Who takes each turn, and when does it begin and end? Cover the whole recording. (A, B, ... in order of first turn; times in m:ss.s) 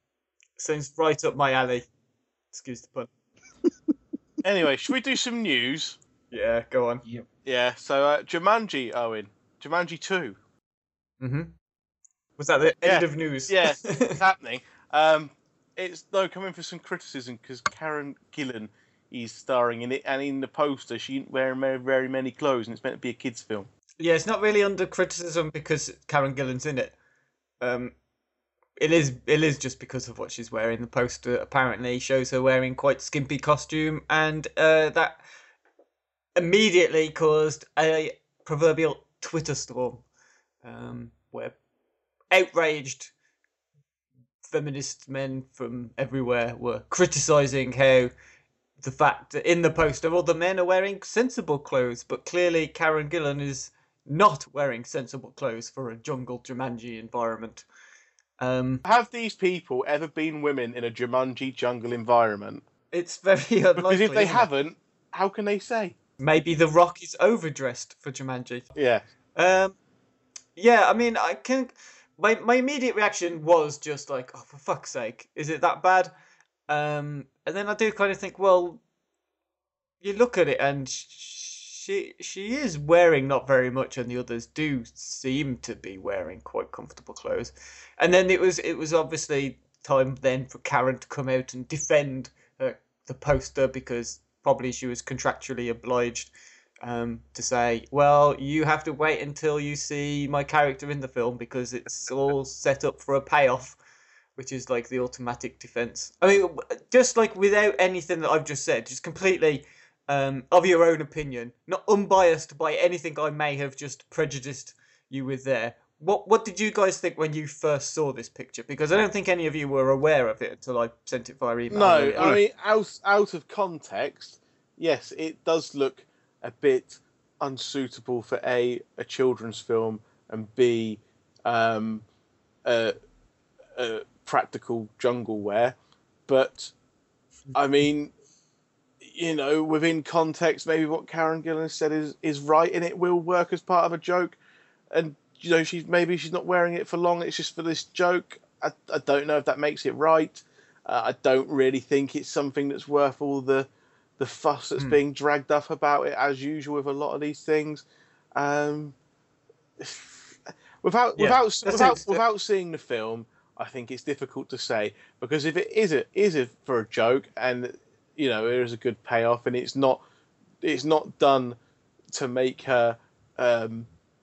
0:00.6-0:01.9 A
0:02.5-0:03.1 A
0:04.4-0:06.0 B
0:06.3-0:07.0 A
0:07.4-0:10.4 B
0:11.2-0:11.5 A
0:12.4-0:14.2 A
0:12.8-0:23.7 B
0:24.0-0:26.9 A
0:27.6-0:27.9 A
0:28.8-0:35.2 A
0:36.4-0:40.0 A
0:40.6-0:41.6 A
0:42.3-0:43.1 A
0:44.4-0:48.1 A
0:48.8-0:57.6 A
0:58.4-0:58.8 A
0:58.8-1:02.6 B
1:02.9-1:04.5 A
1:03.8-1:05.9 B
1:06.2-1:08.7 A
1:08.7-1:09.0 B
1:09.4-1:09.7 A
1:10.6-1:16.1 A
1:16.7-1:18.8 A
1:20.0-1:43.8 A
1:44.4-2:02.4 A
2:01.7-2:12.0 B
2:12.6-2:12.9 B
2:13.8-2:15.8 B
2:16.3-2:16.7 B
2:17.5-2:18.1 B
2:19.0-2:24.4 B
2:24.9-2:37.8 B
2:38.4-2:39.0 B
2:39.8-2:50.0 B
2:41.2-2:42.2 A
2:50.6-2:51.6 B
2:52.1-2:53.9 B